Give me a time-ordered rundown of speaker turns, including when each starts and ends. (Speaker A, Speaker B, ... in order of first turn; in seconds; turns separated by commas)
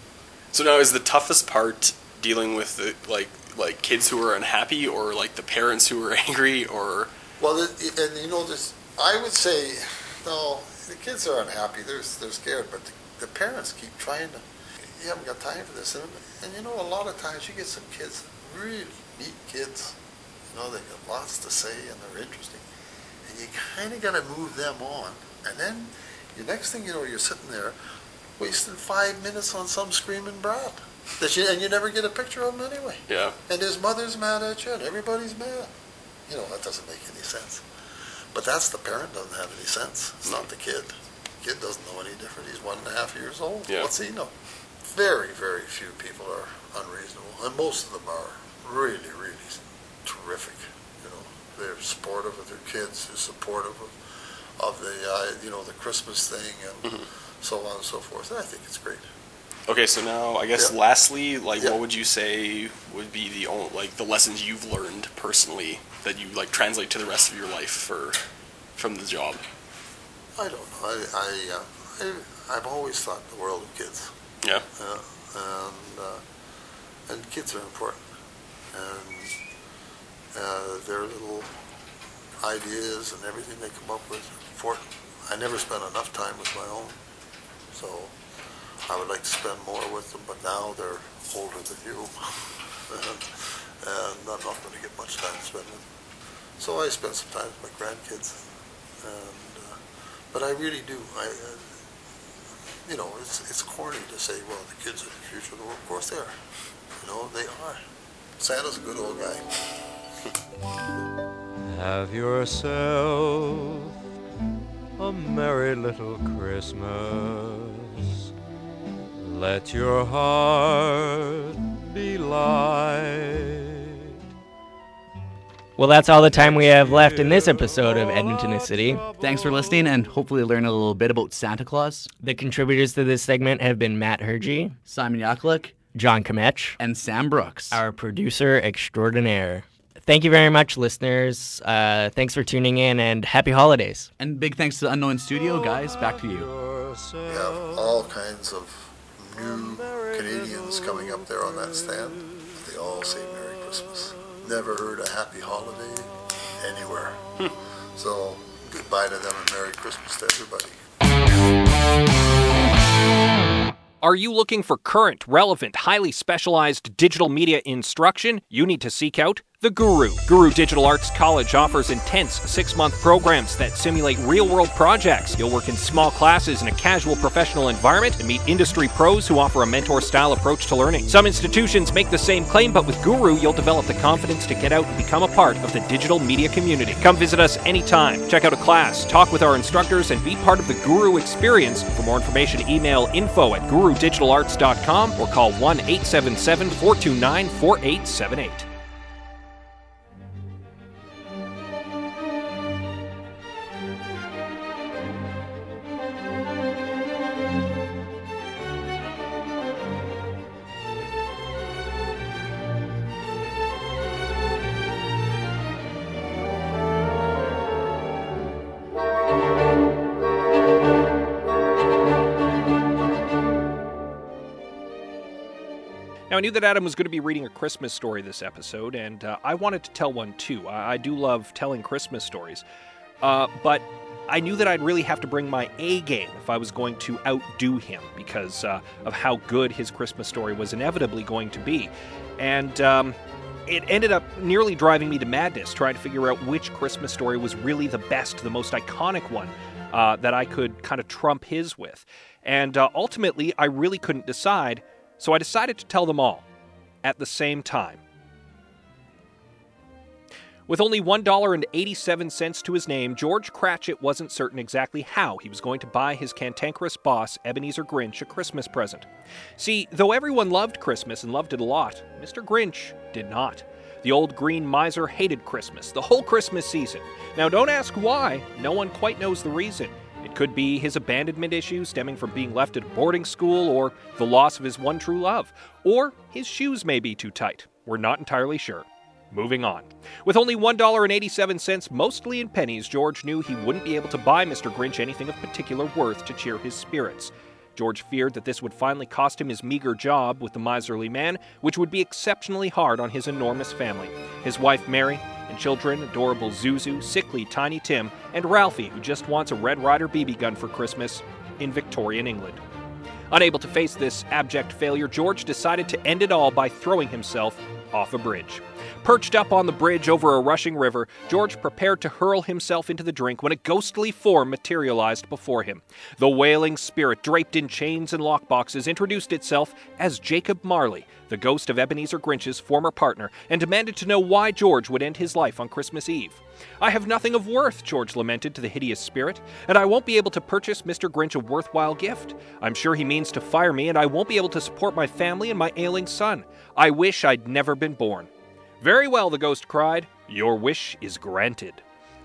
Speaker A: 0.5-7.1, Speaker B: 7.4-14.4, Speaker B: 15.0-19.9, Speaker B: 20.5-22.6, Speaker B: 23.3-27.8, Speaker B: 28.4-35.7, Speaker A: 33.1-33.4, Speaker B: 36.3-37.6, Speaker B: 38.3-44.3, Speaker B: 44.9-54.0, Speaker B: 54.6-59.0, Speaker A: 59.7-68.2, Speaker A: 68.8-69.4, Speaker B: 70.4-74.1, Speaker B: 74.8-76.2, Speaker B: 77.1-78.0, Speaker B: 78.7-79.3, Speaker B: 80.3-81.5, Speaker B: 82.4-87.0, Speaker B: 87.7-88.1, Speaker B: 88.9-92.1, Speaker B: 92.9-95.8, Speaker B: 96.6-98.4, Speaker B: 99.0-99.8, Speaker B: 100.3-101.8, Speaker B: 102.8-106.3, Speaker B: 107.0-107.8, Speaker B: 108.4-109.4, Speaker C: 111.7-113.9, Speaker C: 115.0-118.1, Speaker C: 119.2-123.9, Speaker D: 125.8-129.1, Speaker C: 126.2-129.8, Speaker E: 129.2-132.1, Speaker D: 132.2-134.8, Speaker E: 134.8-135.8, Speaker D: 135.9-136.8, Speaker E: 136.8-137.8, Speaker D: 137.7-144.1, Speaker E: 144.2-146.5, Speaker C: 145.8-147.6, Speaker B: 147.3-157.2, Speaker B: 157.9-160.8, Speaker F: 164.0-198.7, Speaker F: 226.3-232.6, Speaker F: 233.2-256.4, Speaker F: 257.0-258.0, Speaker F: 260.7-269.1, Speaker F: 269.6-312.6, Speaker F: 313.3-351.8